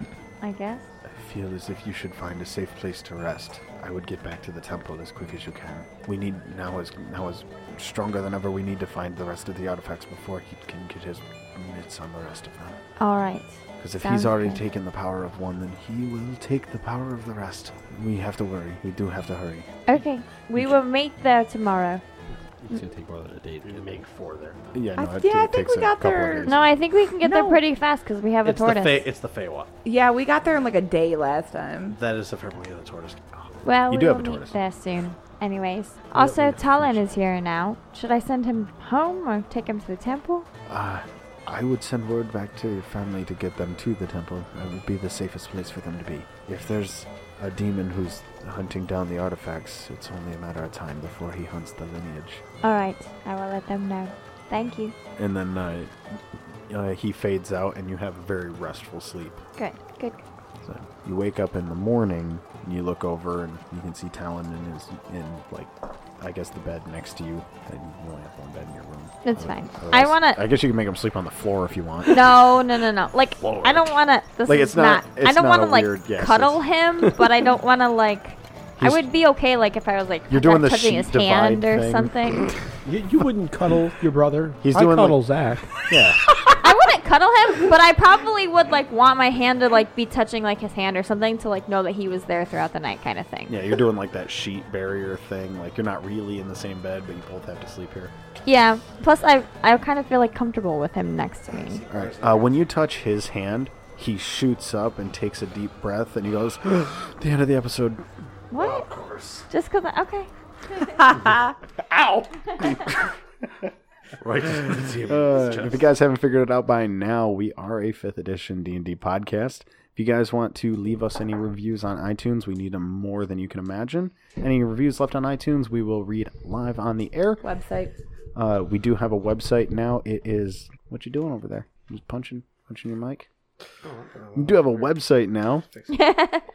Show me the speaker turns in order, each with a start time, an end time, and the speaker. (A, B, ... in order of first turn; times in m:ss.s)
0:00.4-0:00.9 A
0:01.0-0:12.8 B
0:13.0-0:14.6 A
0:13.8-0:19.7 B
0:19.9-0:22.0 A
0:22.6-0:24.0 C
0:23.6-0:24.6 D
0:24.7-0:26.6 B
0:25.0-0:26.5 E
0:26.4-0:29.1 A
0:27.2-0:27.6 E
0:28.4-0:29.7 D
0:29.8-0:32.0 E
0:32.0-0:33.4 D
0:33.6-0:40.5 A
0:33.9-0:34.6 B
0:36.2-0:36.9 B
0:40.7-0:52.4 B
0:52.6-0:55.0 A
0:55.2-0:55.9 B
0:56.7-0:59.4 B
0:59.6-1:00.2 A
1:00.6-1:12.2 B
1:09.2-1:10.4 A
1:12.1-1:22.5 A
1:13.4-1:13.9 D
1:14.5-1:16.6 B
1:18.8-1:19.0 B
1:20.3-1:22.1 B
1:22.8-1:25.7 C
1:24.6-1:25.2 B
1:25.9-1:26.2 B
1:26.6-1:33.6 A
1:33.5-1:38.1 B
1:38.5-1:41.8 A
1:41.6-1:42.6 D
1:41.9-1:48.0 B
1:48.5-1:48.9 A
1:48.5-1:49.5 D
1:49.5-1:50.3 A
1:52.0-1:52.7 D
1:54.2-1:55.8 D
1:55.0-2:07.4 B
2:07.4-2:07.9 E
2:08.4-2:13.3 B
2:13.8-2:15.0 D
2:14.4-2:15.7 B
2:15.9-2:16.4 A